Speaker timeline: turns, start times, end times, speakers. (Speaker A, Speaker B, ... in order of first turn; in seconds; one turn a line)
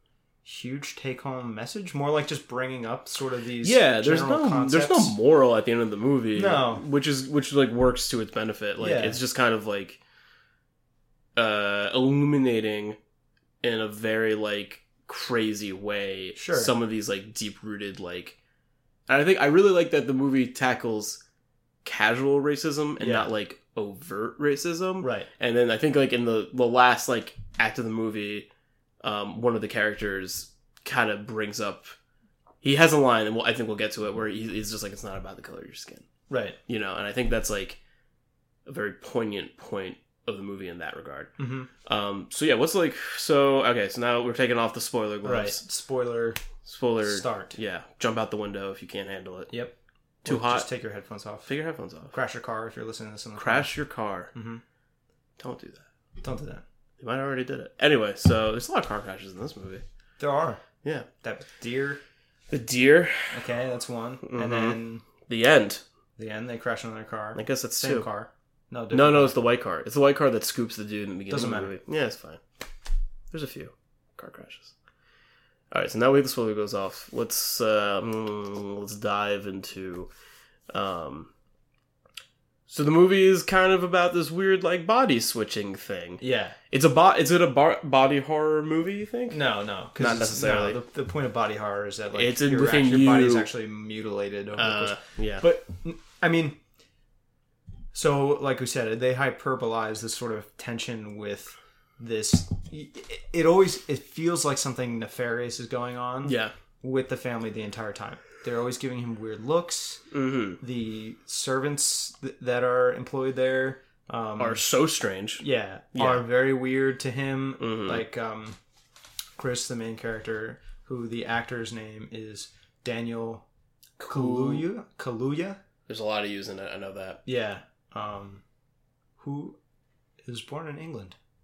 Speaker A: 0.4-5.2
Speaker B: 3.6-10.0
Speaker A: 6.3-6.8
Speaker A: 8.8-9.2
Speaker B: 11.3-13.0
Speaker B: 13.6-18.4
Speaker A: 16.4-16.7
Speaker B: 19.1-21.2
Speaker B: 21.8-28.5
Speaker A: 23.0-23.3
Speaker A: 25.0-25.3
Speaker B: 29.0-31.9
Speaker B: 32.6-36.0
Speaker A: 36.3-36.6
Speaker B: 36.7-37.8
Speaker B: 38.6-41.3
Speaker A: 41.4-41.7
Speaker B: 41.9-45.6
Speaker A: 45.2-46.4
Speaker B: 46.6-49.5
Speaker A: 47.0-47.6
Speaker B: 50.2-50.7
Speaker A: 50.2-51.5
Speaker B: 51.5-52.1
Speaker A: 52.1-53.7
Speaker B: 53.4-54.3
Speaker A: 54.3-54.6
Speaker B: 55.4-55.9
Speaker A: 56.2-56.6
Speaker B: 57.0-59.8
Speaker A: 60.2-60.6
Speaker A: 61.2-62.0
Speaker B: 62.5-63.5
Speaker A: 63.3-65.1
Speaker B: 64.2-65.8
Speaker A: 66.2-69.4
Speaker B: 67.3-68.1
Speaker B: 68.9-72.4
Speaker A: 71.3-71.8
Speaker B: 73.3-74.7
Speaker B: 75.7-80.1
Speaker B: 80.7-81.3
Speaker B: 82.7-89.4
Speaker A: 86.2-86.6
Speaker A: 89.3-96.6
Speaker B: 90.0-90.8
Speaker B: 92.1-93.5
Speaker B: 94.6-95.4
Speaker A: 97.9-110.0
Speaker B: 106.2-106.5
Speaker B: 110.1-110.6
Speaker A: 110.6-114.6
Speaker B: 114.4-115.4
Speaker A: 115.4-118.6
Speaker B: 115.9-116.2
Speaker B: 117.6-118.0
Speaker A: 119.4-123.4
Speaker B: 124.0-124.7
Speaker A: 124.1-125.6
Speaker B: 125.9-127.2
Speaker A: 127.2-128.4
Speaker A: 129.2-129.6
Speaker A: 130.2-131.2